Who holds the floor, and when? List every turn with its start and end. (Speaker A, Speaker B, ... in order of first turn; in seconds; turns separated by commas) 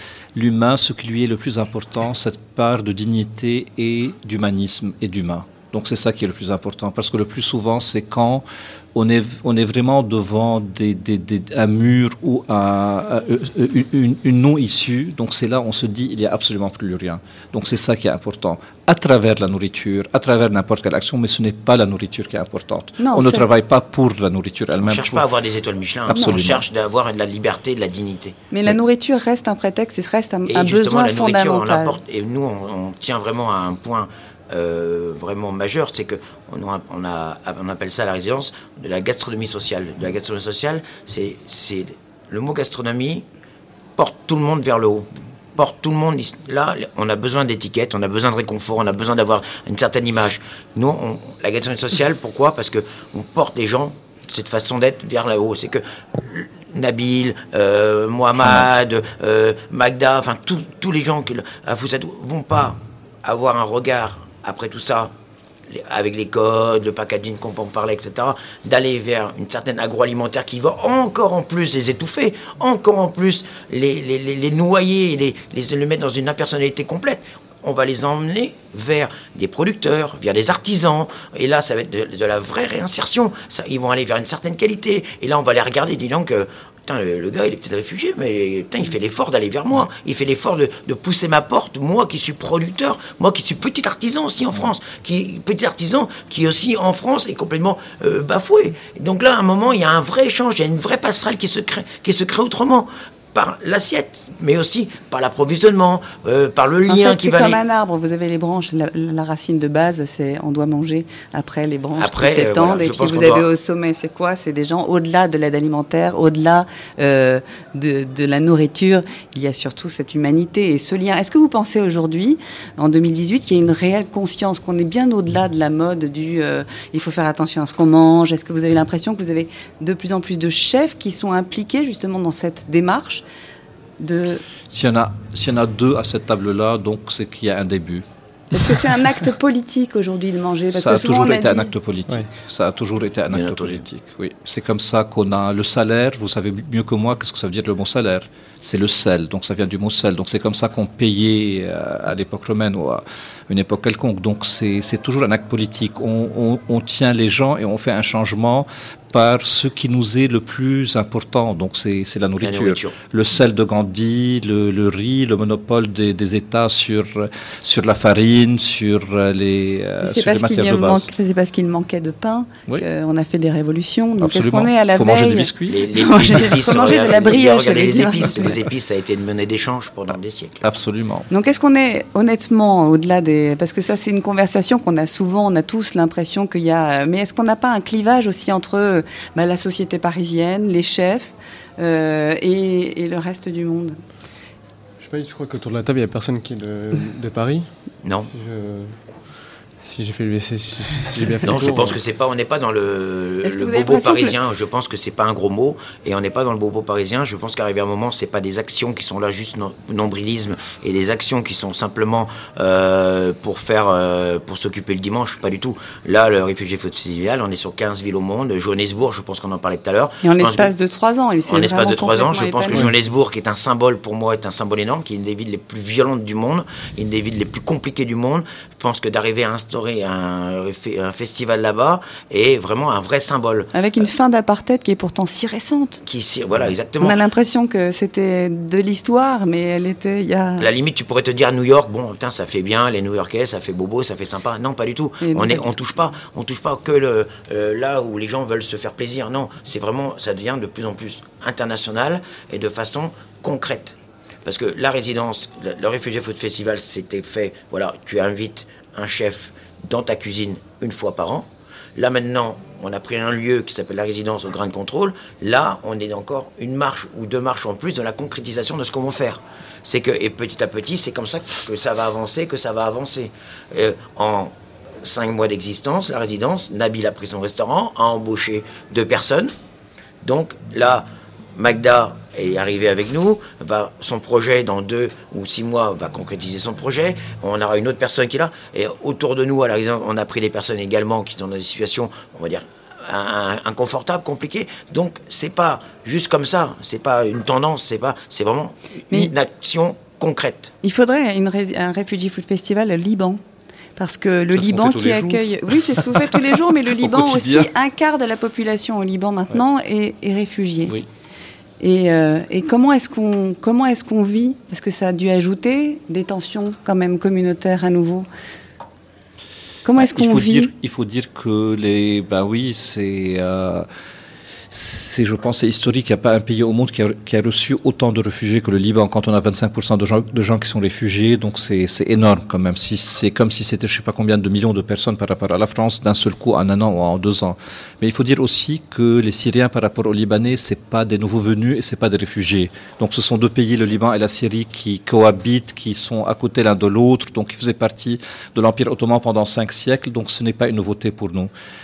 Speaker A: 0.3-25.3, Speaker B: 23.0-23.5, Speaker C: 24.8-28.4, Speaker A: 26.1-26.6, Speaker B: 26.1-26.4, Speaker B: 28.5-32.0, Speaker C: 30.5-43.2, Speaker C: 44.0-65.1, Speaker C: 65.7-107.6, Speaker B: 106.9-133.2, Speaker C: 112.0-113.5, Speaker B: 134.0-134.4, Speaker A: 134.7-138.0, Speaker B: 138.5-141.7, Speaker A: 140.8-171.1, Speaker C: 143.3-143.8, Speaker C: 162.4-163.0, Speaker B: 170.0-178.6, Speaker A: 174.2-176.5, Speaker C: 175.7-180.6, Speaker A: 180.6-181.3, Speaker B: 181.3-194.0, Speaker D: 195.0-197.7, Speaker C: 198.0-198.3, Speaker D: 198.3-199.0, Speaker D: 199.8-202.0, Speaker C: 201.4-220.7, Speaker B: 203.4-204.3, Speaker B: 220.2-222.9, Speaker C: 221.5-233.7, Speaker B: 233.7-236.0, Speaker C: 236.0-237.2, Speaker B: 237.0-240.7, Speaker C: 240.6-279.5, Speaker B: 245.2-245.7, Speaker C: 280.2-300.7, Speaker B: 300.8-303.4, Speaker B: 304.0-310.9, Speaker A: 304.5-307.7, Speaker B: 311.8-318.3, Speaker B: 319.9-320.7, Speaker A: 320.0-323.9, Speaker A: 324.7-351.5